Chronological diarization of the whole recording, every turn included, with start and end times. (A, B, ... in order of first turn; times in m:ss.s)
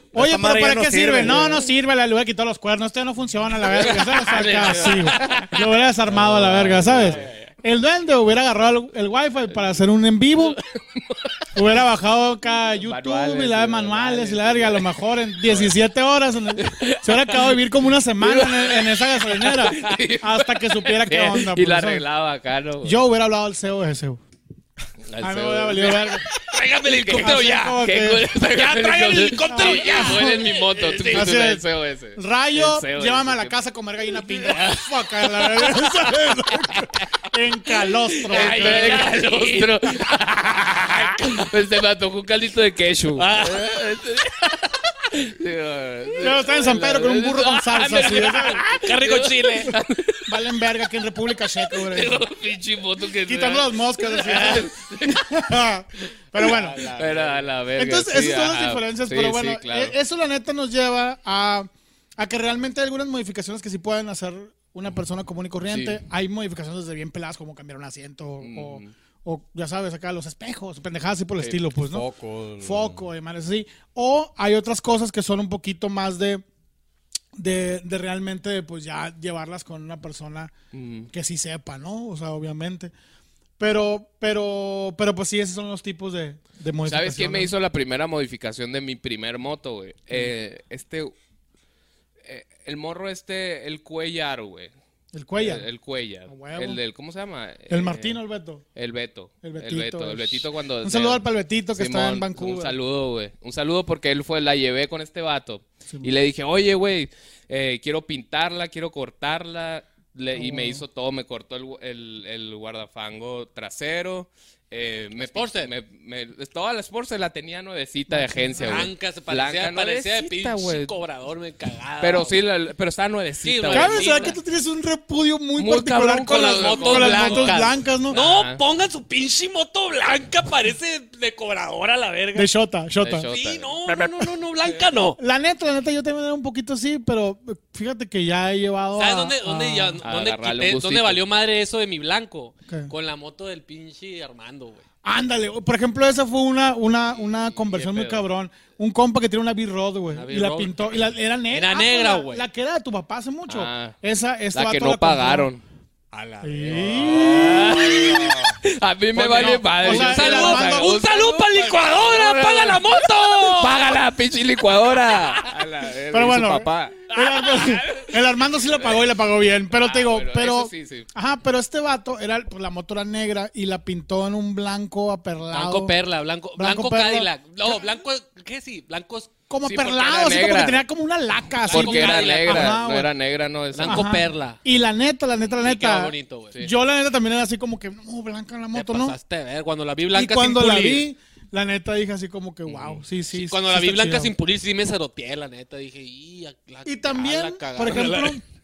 0:00.1-0:10.6 A
0:00.1-0:01.7 B
0:03.7-0:05.4 C
0:04.2-0:07.4 D
0:06.4-0:07.1 B
0:10.9-0:11.4 D
0:11.5-0:22.0 A
0:12.8-0:15.7 D
0:16.6-0:17.6 D
0:18.2-0:23.0 D
0:22.8-0:24.2 A
0:25.1-0:33.6 D
0:25.2-0:26.2 A
0:26.4-0:27.8 C
0:27.2-0:28.3 A
0:28.5-0:31.4 C
0:29.5-0:30.5 A
0:31.1-0:39.2 A
0:34.3-0:34.8 C
0:38.2-0:41.5 C
0:38.3-0:44.4 D
0:43.2-0:44.2 C
0:45.1-0:50.2 D
0:46.2-0:48.7 A
0:48.6-0:49.8 C
0:50.3-0:52.3 A
0:51.7-0:55.2 D
0:53.2-0:56.9 A
0:56.4-0:57.5 C
0:56.4-0:59.9 D
0:57.8-1:12.0 A
1:05.7-1:06.0 D
1:08.4-1:08.9 D
1:11.8-1:13.1 B
1:12.6-1:16.4 A
1:17.4-1:20.5 A
1:20.7-1:21.1 D
1:21.1-1:22.9 A
1:23.6-1:27.5 A
1:26.8-1:31.1 D
1:32.2-1:34.7 D
1:35.1-1:35.7 A
1:35.4-1:38.2 D
1:36.2-1:36.8 A
1:37.7-1:38.6 A
1:38.7-2:00.9 D
1:39.4-1:42.7 A
1:45.9-1:46.1 A
1:50.3-1:50.8 A
1:55.2-1:55.7 C
1:58.1-1:58.9 A
1:58.6-2:02.4 C
2:02.0-2:04.4 D
2:03.4-2:04.4 C
2:03.7-2:08.2 A
2:05.6-2:08.6 D
2:06.3-2:12.5 C
2:12.3-2:13.3 A
2:13.0-2:13.8 D
2:13.3-2:15.2 C
2:15.2-2:20.0 A
2:18.9-2:24.8 C
2:20.0-2:21.2 D
2:25.0-2:35.5 A
2:27.4-2:28.2 D
2:30.1-2:30.9 C
2:31.5-2:32.4 C
2:33.5-2:34.0 D
2:34.5-2:35.6 D
2:36.1-2:37.7 C
2:36.4-2:37.9 A
2:36.9-2:38.4 B
2:37.0-2:47.0 D
2:39.1-2:41.0 A
2:39.4-2:44.0 C
2:45.1-2:45.5 C
2:46.1-2:55.9 A
2:47.1-2:48.2 C
2:49.8-2:51.1 D
2:55.5-2:59.3 C
2:56.6-2:57.8 A
2:59.5-3:03.1 A
2:59.6-3:00.8 D
3:01.6-3:02.8 C
3:01.7-3:04.1 D
3:03.7-3:04.6 C
3:03.8-3:09.2 A
3:05.5-3:06.6 C
3:08.7-3:11.1 C
3:10.1-3:14.3 A
3:12.6-3:13.0 D
3:13.3-3:18.4 C
3:16.8-3:18.4 A